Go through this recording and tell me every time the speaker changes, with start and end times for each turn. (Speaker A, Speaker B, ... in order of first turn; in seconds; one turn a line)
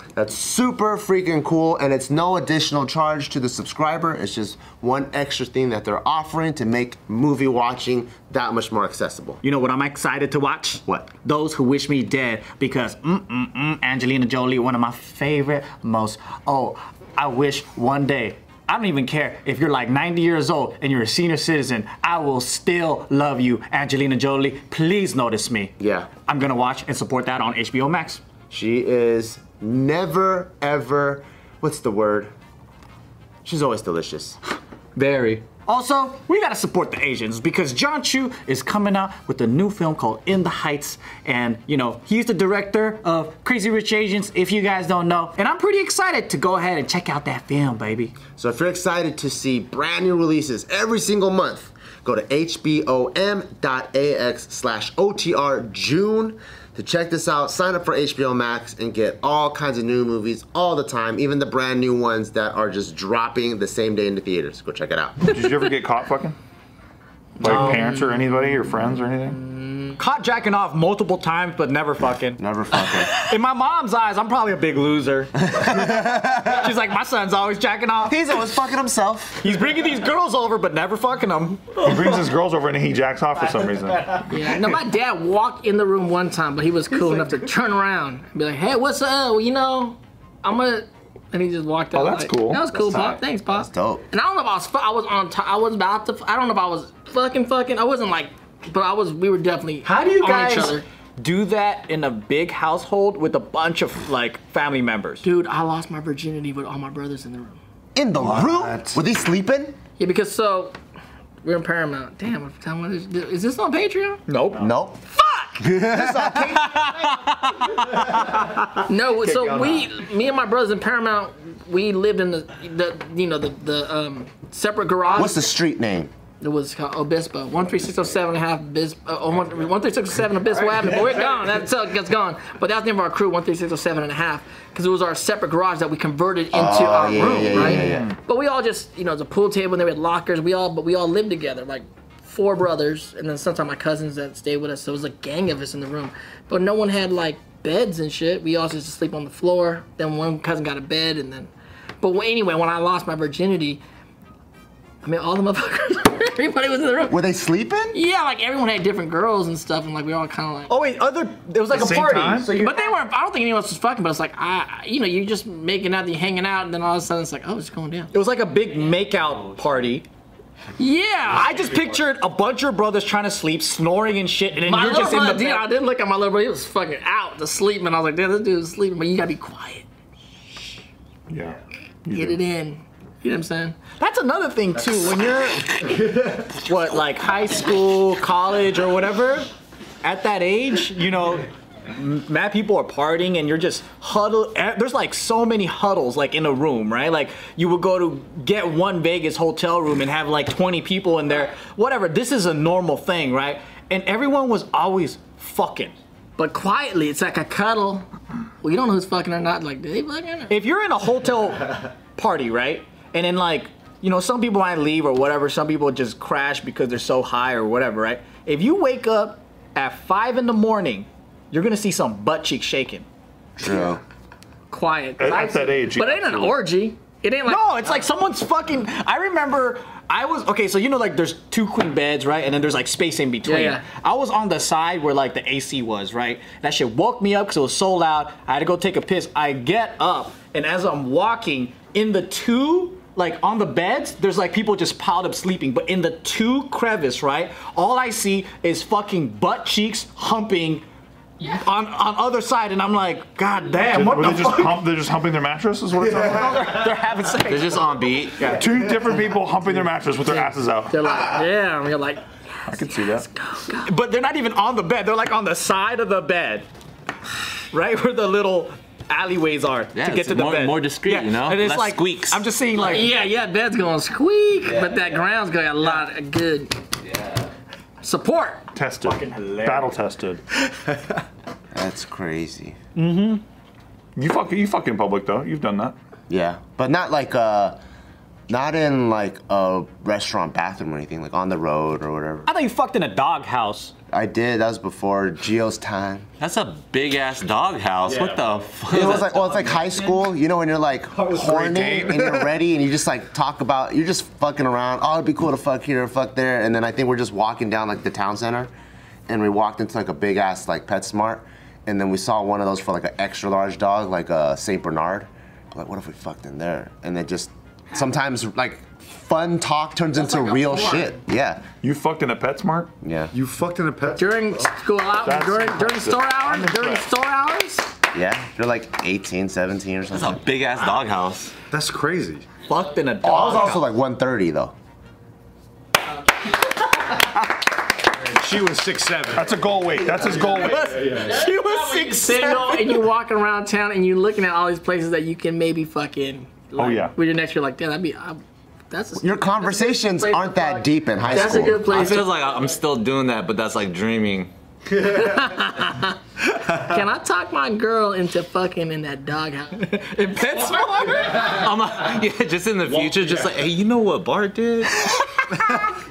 Speaker A: 0.1-9.4
Speaker B: 9.4-25.7
Speaker A: 25.8-26.1
Speaker B: 26.2-28.2
Speaker A: 28.5-32.3
Speaker A: 33.4-34.4
Speaker C: 35.0-35.4
Speaker B: 35.6-48.1
Speaker A: 48.4-65.3
Speaker D: 65.2-66.3
Speaker D: 67.4-69.4
Speaker B: 67.4-67.9
Speaker B: 70.0-78.2
Speaker A: 72.4-73.2
Speaker A: 75.5-76.1
Speaker A: 78.0-79.6
Speaker B: 79.4-82.0
Speaker D: 81.8-84.3
Speaker E: 84.3-100.8
Speaker D: 91.9-93.0
Speaker A: 93.6-94.0
Speaker B: 99.8-105.2
Speaker E: 105.2-107.6
Speaker A: 107.9-109.8
Speaker C: 108.2-109.0
Speaker E: 110.0-110.8
Speaker E: 111.4-114.2
Speaker B: 114.3-114.7
Speaker A: 114.5-115.0
Speaker E: 115.1-115.6
Speaker A: 115.6-117.1
Speaker C: 115.7-116.4
Speaker B: 116.5-118.4
Speaker E: 118.8-125.5
Speaker A: 125.1-126.1
Speaker E: 126.4-153.8
Speaker A: 136.5-138.1
Speaker D: 137.6-138.2
Speaker E: 155.0-157.2
Speaker A: 157.1-158.0
Speaker E: 157.9-160.7
Speaker B: 160.7-163.0
Speaker D: 161.7-162.5
Speaker E: 162.6-168.1
Speaker B: 168.1-170.1
Speaker E: 170.8-171.6
Speaker B: 171.3-175.7
Speaker E: 174.6-179.8
Speaker D: 181.3-182.4
Speaker E: 182.1-183.8
Speaker B: 184.0-189.5
Speaker B: 190.0-205.9
Speaker E: 206.4-208.1
Speaker E: 208.6-210.5
Speaker B: 210.5-223.1
Speaker A: 223.6-224.0
Speaker E: 224.7-227.7
Speaker D: 225.2-226.6
Speaker B: 227.5-250.8
Speaker E: 233.4-233.8
Speaker B: 251.4-254.8
Speaker D: 253.8-256.7
Speaker B: 256.1-258.7
Speaker F: 257.4-258.5
Speaker D: 258.5-261.2
Speaker E: 260.3-263.9
Speaker D: 262.7-263.3
Speaker B: 263.8-266.6
Speaker B: 267.7-273.1
Speaker F: 269.9-272.4
Speaker E: 272.8-276.7
Speaker F: 277.1-277.4
Speaker E: 278.0-278.7
Speaker D: 278.7-280.4
Speaker B: 279.0-279.9
Speaker A: 281.7-282.8
Speaker B: 282.9-283.4
Speaker D: 284.1-285.9
Speaker A: 286.3-287.8
Speaker A: 288.5-292.5
Speaker B: 292.4-293.9
Speaker A: 294.1-296.3
Speaker F: 296.4-299.3
Speaker B: 298.1-298.4
Speaker A: 298.9-308.7
Speaker B: 298.9-300.3
Speaker C: 301.2-302.5
Speaker A: 309.3-321.7
Speaker E: 320.2-321.1
Speaker D: 321.8-322.9
Speaker A: 323.0-323.3
Speaker C: 323.3-324.6
Speaker E: 324.1-327.9
Speaker D: 325.2-327.1
Speaker A: 328.1-330.4
Speaker F: 330.1-331.5
Speaker C: 331.7-332.4
Speaker B: 332.6-333.9
Speaker A: 333.2-334.7
Speaker C: 338.2-339.7
Speaker D: 339.3-341.0
Speaker C: 340.4-341.4
Speaker B: 340.5-343.0
Speaker E: 341.1-352.3
Speaker D: 346.8-347.1
Speaker A: 349.2-352.3
Speaker F: 351.9-354.5
Speaker E: 354.9-361.4
Speaker B: 359.8-361.7
Speaker F: 361.3-365.1
Speaker E: 365.5-365.8